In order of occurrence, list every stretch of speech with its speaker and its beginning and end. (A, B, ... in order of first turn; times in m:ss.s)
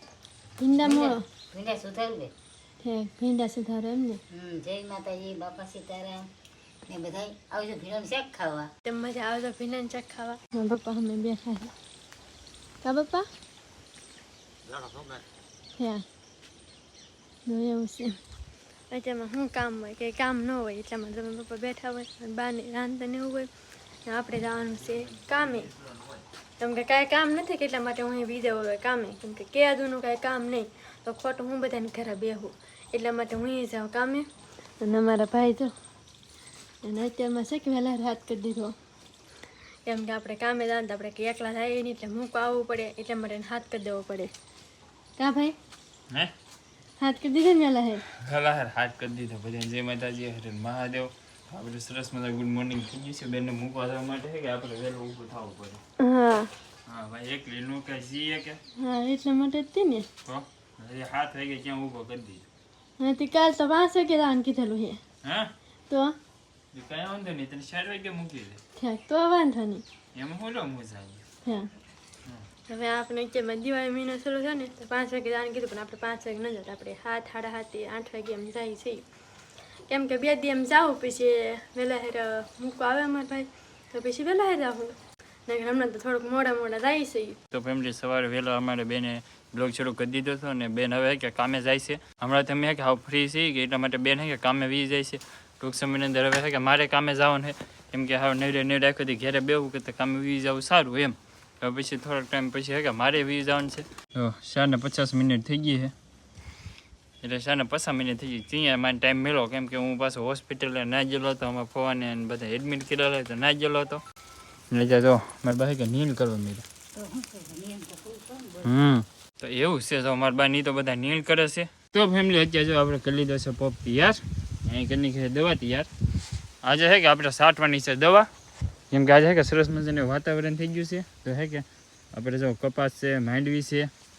0:00.6-0:01.2 A
0:00.8-0:02.3 B
0:02.8-0:04.2 A
0:04.3-0:06.3 B
0:06.9-0:08.7 B
0:08.8-0:11.7 A
0:12.8-0:13.2 A
0:15.8-0:16.0 A
0:17.5-0:18.2 A
0:18.9-0:23.5 A
0:24.0-0:25.7 A
0:26.6-0:34.3 A
0:34.8-0:35.7 A
0:36.8-0:38.7 A
0:39.8-0:44.3 A
0:45.2-0:45.6 A
0:47.0-0:48.0 A
0:48.2-0:55.8 C
0:56.0-0:56.5 A
0:56.9-0:58.6 C
0:58.8-1:00.1 A
1:00.2-1:02.4 C
1:03.0-1:05.0 A
1:05.2-1:05.5 C
1:05.9-1:06.2 A
1:06.7-1:08.6 C
1:08.8-1:09.8 A
1:10.2-1:11.2 C
1:12.7-1:19.0 A
1:19.9-1:25.0 A
1:25.5-1:27.4 A
1:27.5-1:45.9 C
1:47.2-1:54.0 C
1:54.7-1:56.6 C
1:57.0-1:58.8 B
1:58.6-2:05.9 C
2:06.6-2:08.3 C
2:08.9-2:13.9 C